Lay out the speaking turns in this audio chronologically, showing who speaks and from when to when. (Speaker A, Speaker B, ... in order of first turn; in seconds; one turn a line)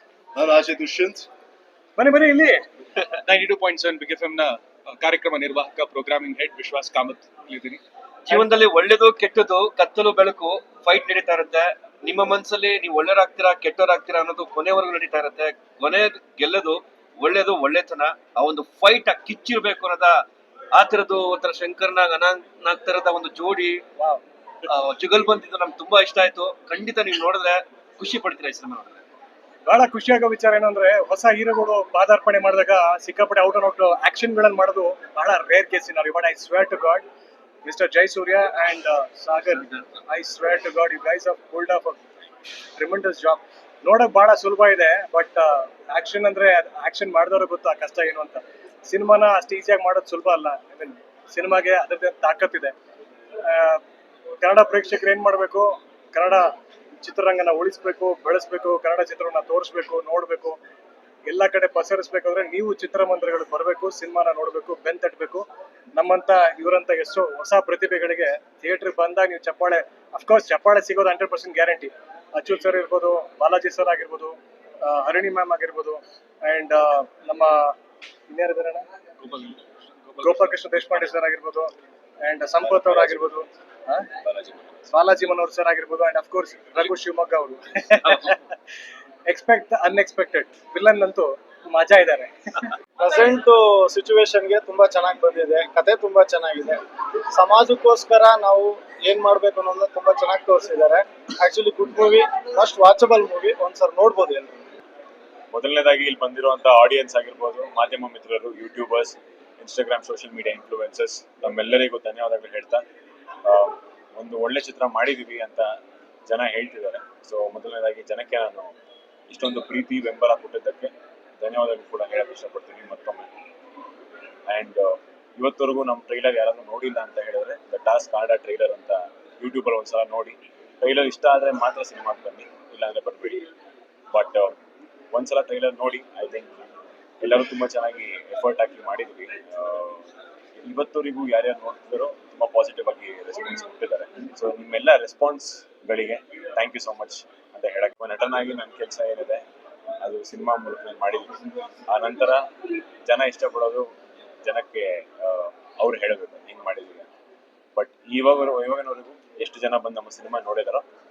Speaker A: 0.3-1.2
Speaker B: 2.0-2.6
Speaker A: 3.2-7.8
Speaker C: 8.2-20.2
Speaker C: 20.7-23.8
Speaker C: 24.7-29.0
Speaker B: 29.7-37.0
Speaker B: 37.6-42.0
Speaker B: 42.8-52.7
Speaker B: 53.5-53.8
Speaker B: 54.4-56.5
Speaker B: 57.0-60.6
Speaker B: 61.3-65.4
Speaker B: 66.0-77.7
Speaker B: 78.3-78.8
Speaker A: 79.2-80.5
Speaker B: 80.2-81.7
Speaker B: 82.2-84.1
Speaker D: 84.2-84.6
Speaker B: 84.9-88.5
Speaker B: 89.3-92.7
Speaker E: 93.0-96.8
Speaker E: 97.3-104.6
Speaker D: 105.5-112.8
Speaker D: 113.4-115.7
Speaker D: 116.3-118.7
Speaker D: 119.3-123.3
Speaker D: 124.5-133.4
Speaker D: 134.1-134.5
Speaker D: 135.1-136.5
Speaker D: 137.2-140.1
Speaker D: 140.6-149.4
Speaker D: 150.0-152.4
Speaker D: 153.1-153.9
Speaker D: 154.4-157.1
Speaker D: 157.8-160.8